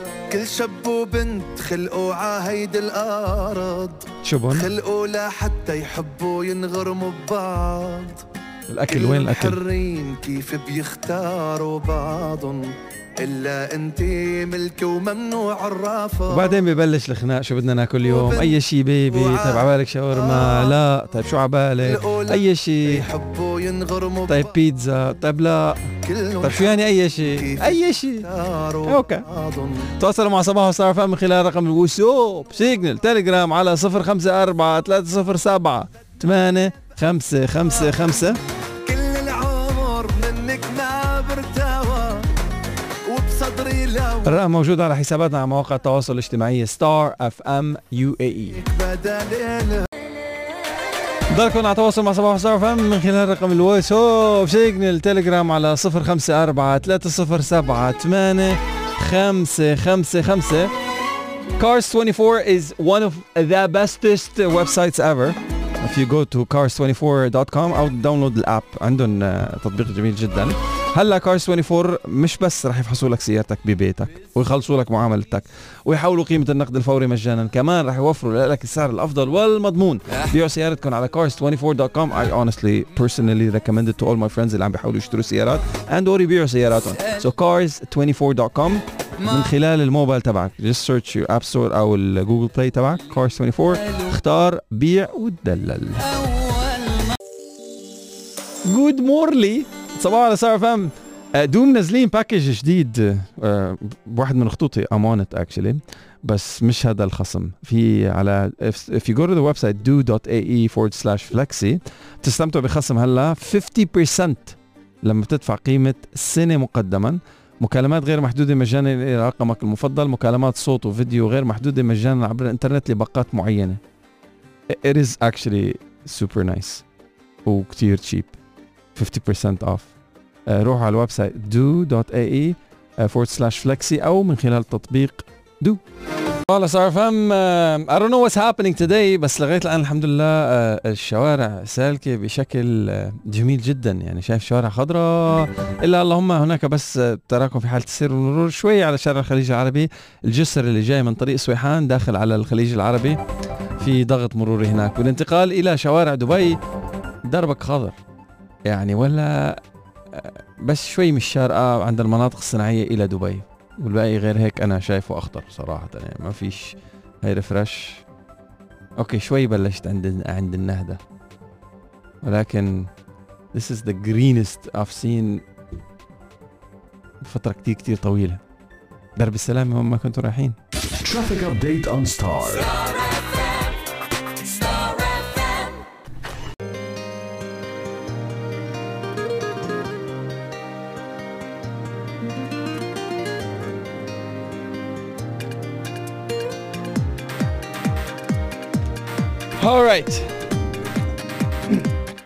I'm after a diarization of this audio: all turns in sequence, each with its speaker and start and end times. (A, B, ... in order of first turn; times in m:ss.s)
0:00.3-0:08.2 A
0:04.2-0:04.7 B
0:08.7-0:09.6 B
0:08.9-0:16.5 A
0:16.3-0:23.1 B
0:18.1-0:18.6 A
0:19.1-0:20.7 A
0:21.8-0:24.6 A
0:24.3-0:28.3 B
0:26.0-0:29.9 A
0:28.8-0:29.3 B
0:29.8-0:38.4 B
0:38.8-0:42.3 A
0:43.1-0:44.3 A
0:44.2-0:48.6 B
0:48.6-0:49.9 A
0:51.3-1:00.7 B
1:01.6-1:36.5 B
1:38.6-2:03.8 B
2:04.7-2:06.8 B
2:07.4-2:08.3 B
2:09.0-2:09.9 B
2:10.5-2:15.8 B
2:16.5-2:33.2 B
2:33.8-2:36.6 B
2:37.2-2:38.0 B
2:38.7-2:39.6 B
2:40.1-2:48.0 B
2:49.0-2:51.0 B
2:52.2-2:52.9 B
2:53.5-2:55.4 B
2:57.2-2:58.4 B
2:59.2-3:00.6 B
3:00.9-3:03.1 C
3:19.6-3:20.4 B